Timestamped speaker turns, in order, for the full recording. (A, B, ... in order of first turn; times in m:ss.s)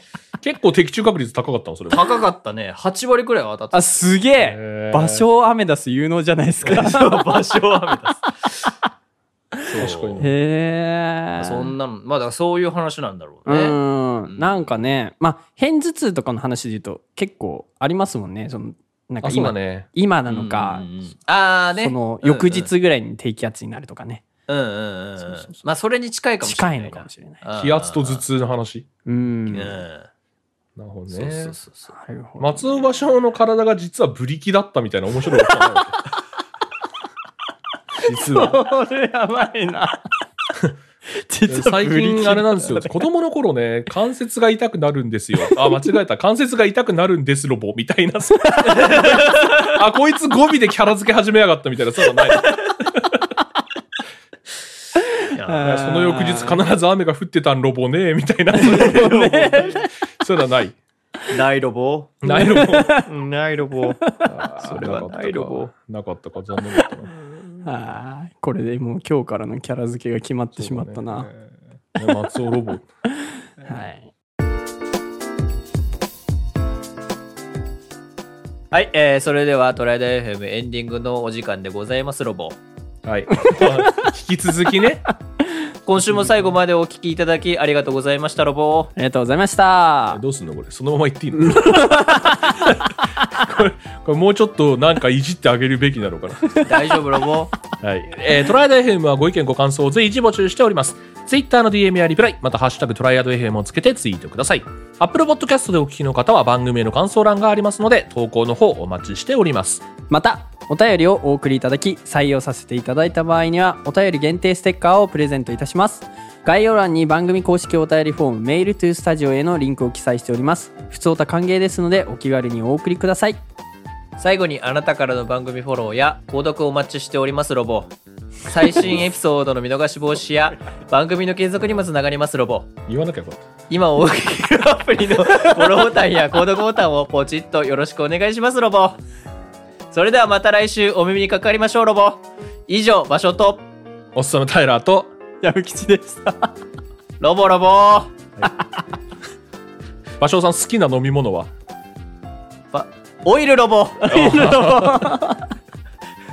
0:00.4-0:02.1 A
0:01.9-0:03.9 B
0:03.7-0:07.4 C
0:04.4-0:05.2 A
0:06.6-0:08.7 B
0:06.6-0:06.9 A
0:09.6-0:10.2 B
0:09.8-0:10.3 A
0:10.2-0:11.7 C
0:11.4-0:14.6 B
0:13.4-0:20.9 C
0:19.2-0:19.9 A
0:20.3-0:22.7 B
0:21.7-0:24.2 C
0:24.5-0:28.2 B
0:25.2-0:25.6 C
0:26.4-0:27.4 C
0:27.6-0:28.8 A
0:29.0-0:29.8 C
0:29.5-0:30.1 B
0:30.8-0:31.6 A
0:31.1-0:31.9 B
0:31.9-0:32.7 C
0:32.4-0:36.0 A
0:35.3-0:35.7 C
0:38.0-0:40.0 C
0:38.0-0:38.6 A
0:41.3-0:43.1 C
0:41.5-0:53.2 A
0:45.4-0:45.9 C
0:48.7-0:49.6 B
0:55.3-0:55.8 B
0:55.5-0:56.6 C
0:55.6-0:59.1 A
0:58.5-0:59.9 C
0:58.6-0:59.9 B
1:00.2-1:00.8 A
1:01.3-1:02.2 B
1:02.2-1:03.0 A
1:02.3-1:03.1 C
1:03.0-1:04.0 B
1:04.0-1:04.6 C
1:04.2-1:07.1 A
1:04.6-1:05.7 B
1:07.6-1:11.3 C
1:10.6-1:11.3 A
1:12.0-1:12.8 A
1:13.1-1:14.1 C
1:18.7-1:22.6 B
1:23.0-1:25.1 A
1:23.5-1:24.1 C
1:25.8-1:28.9 B
1:29.0-1:30.2 C
1:30.1-1:36.6 A
1:31.5-1:32.6 C
1:36.6-1:37.5 B
1:37.8-1:49.9 A
1:50.1-2:03.4 C
2:04.2-2:07.9 B
2:08.4-2:12.7 B
2:12.9-2:13.4 A
2:13.7-2:19.0 B
2:19.9-2:23.6 B
2:24.1-2:25.1 A
2:25.4-2:26.6 C
2:27.2-2:28.1 B
2:30.2-2:31.5 A
2:32.7-2:34.4 B
2:34.0-2:35.4 C
2:34.1-2:35.1 A